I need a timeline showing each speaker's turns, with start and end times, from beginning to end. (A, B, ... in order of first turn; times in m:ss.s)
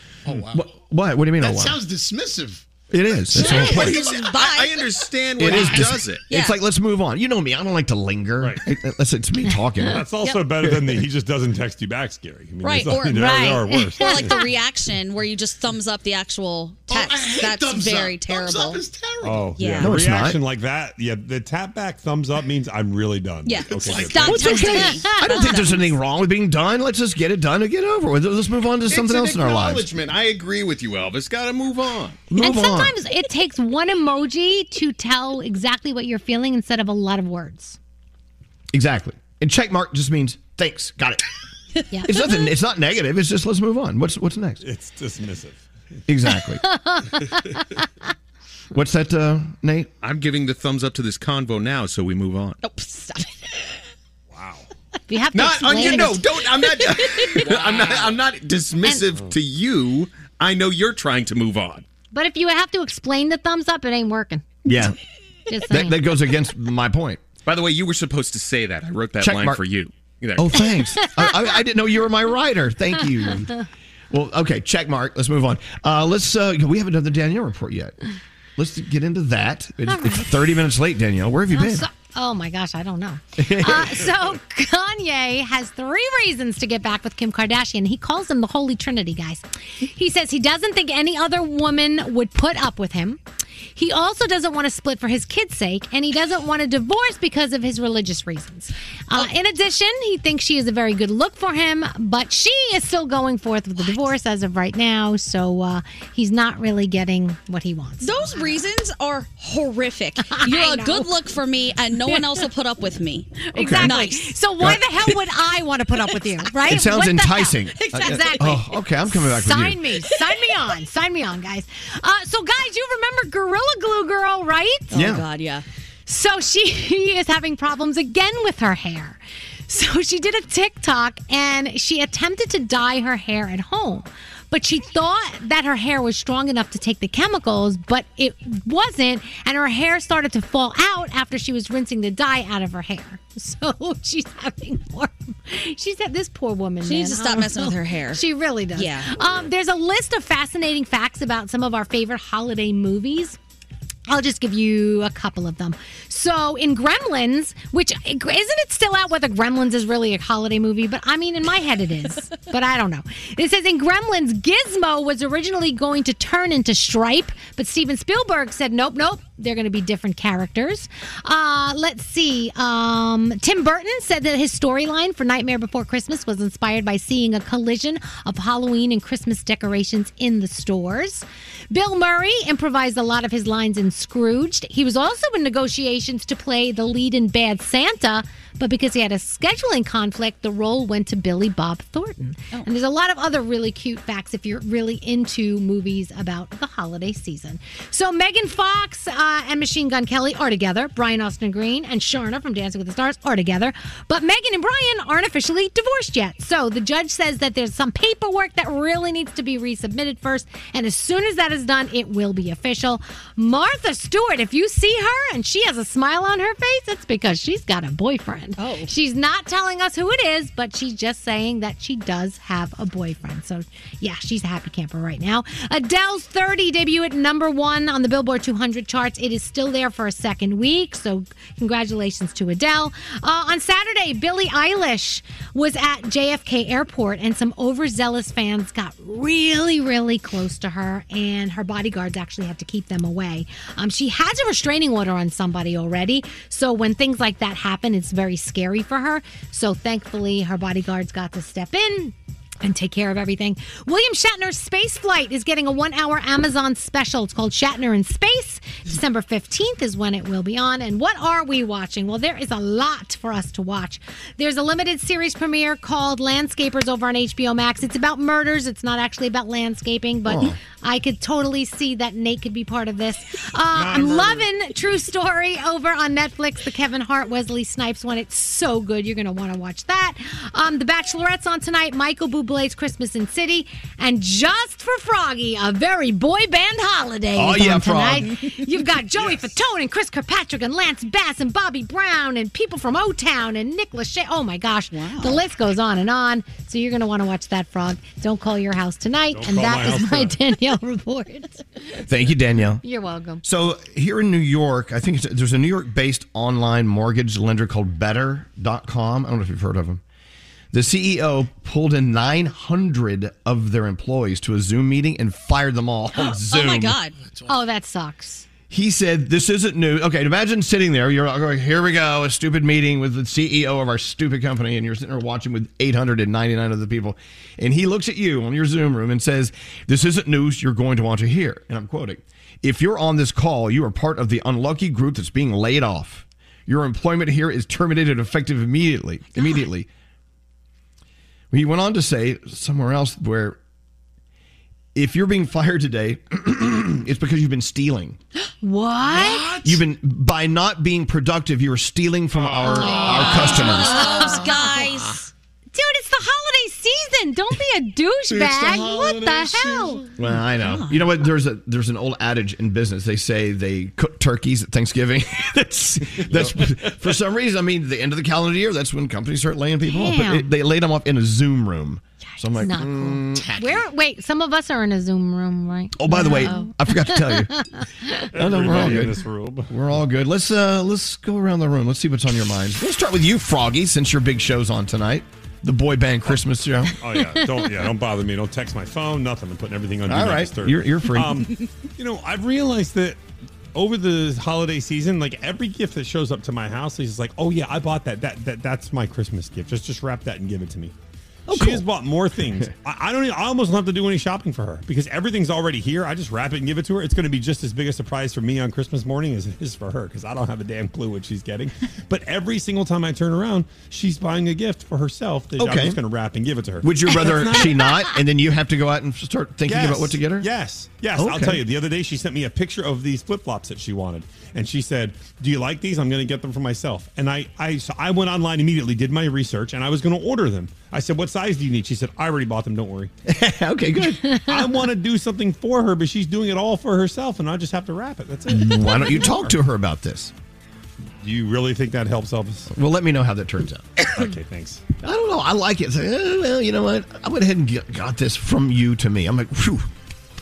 0:00.2-0:00.6 A
0:00.5-0:01.8 B
0:01.4-0:03.5 A
0:02.9-0:04.0 B
0:03.3-0:05.0 C
0:03.4-0:06.3 D
0:05.4-0:10.0 B
0:05.5-0:05.9 A
0:06.3-0:06.6 C
0:09.5-0:10.4 E
0:09.9-0:14.3 F
0:12.6-0:13.4 C
0:13.1-0:14.5 E
0:14.0-0:18.8 C
0:16.9-0:19.5 A
0:19.2-0:24.6 F
0:19.6-0:20.0 C
0:19.8-0:20.4 B
0:23.4-0:25.9 C
0:23.7-0:24.3 A
0:24.2-0:29.9 B
0:24.3-0:25.5 E
0:28.9-0:29.8 A
0:29.1-0:32.3 D
0:32.3-0:33.0 B
0:32.4-0:37.8 E
0:38.7-0:41.2 B
0:41.9-0:42.4 E
0:42.0-0:44.6 B
0:44.6-0:45.6 F
0:46.1-0:46.6 B
0:46.4-0:47.6 E
0:48.7-0:49.9 B
0:50.0-0:52.6 D
0:52.6-0:53.5 C
0:54.3-0:54.6 F
0:55.1-0:56.7 E
0:55.3-1:01.8 D
0:57.5-0:58.1 B
1:02.1-1:04.5 E
1:04.6-1:05.0 B
1:05.5-1:06.0 E
1:05.6-1:07.2 B
1:07.4-1:10.6 D
1:09.2-1:09.6 B
1:10.4-1:13.5 B
1:10.8-1:11.6 E
1:14.1-1:18.0 B
1:18.6-1:21.8 B
1:19.9-1:20.4 E
1:21.5-1:33.2 E
1:23.4-1:24.1 B
1:33.7-1:48.6 E
1:43.8-1:44.0 C
1:48.0-1:54.8 C
1:50.2-1:51.1 E
1:52.0-1:52.4 E
1:53.5-2:04.9 E
1:53.6-1:53.9 B
1:56.1-1:56.5 C
1:56.7-1:59.8 B
1:57.9-1:58.6 C
2:00.1-2:00.4 C
2:04.9-2:05.6 C
2:04.9-2:05.2 B
2:06.0-2:33.4 E
2:26.8-2:29.1 C
2:34.1-5:01.8 E
3:38.6-3:38.9 C
4:30.2-4:30.6 B
4:33.7-4:34.5 F
4:47.3-4:48.3 B
4:54.9-4:55.4 C
4:59.3-5:00.4 F
5:02.0-5:02.8 B
5:02.8-5:03.4 E
5:03.4-5:10.0 B
5:10.7-5:17.0 B
5:16.2-5:17.2 C
5:17.2-5:17.5 A
5:17.4-5:18.4 E
5:18.7-5:39.9 B
5:41.5-5:43.6 B
5:44.9-5:48.2 B
5:48.6-5:49.6 E
5:49.1-5:49.8 A
5:49.6-5:54.4 B
5:52.4-5:53.3 A
5:52.6-5:55.0 E
5:53.0-5:55.2 C
5:55.7-6:00.1 E
5:58.3-6:00.0 A
6:00.2-6:13.6 B
6:00.6-6:01.0 C
6:09.9-6:10.5 C
6:12.6-6:18.3 E
6:16.0-6:17.5 B
6:18.3-6:27.0 B
6:18.3-6:19.7 F
6:27.0-6:33.2 F
6:27.4-6:27.6 E
6:30.0-6:31.5 B
6:33.7-6:40.9 F
6:41.5-6:41.8 B
6:41.5-6:57.7 F
6:55.6-6:56.0 B
6:56.8-7:00.5 B
6:59.7-7:13.1 F
7:01.2-7:01.6 B
7:13.2-7:14.3 B
7:14.2-7:14.7 E
7:14.5-7:19.6 F
7:18.5-7:20.3 B
7:21.2-7:22.7 F
7:22.7-7:24.0 B
7:24.1-7:24.8 F
7:25.0-7:29.9 B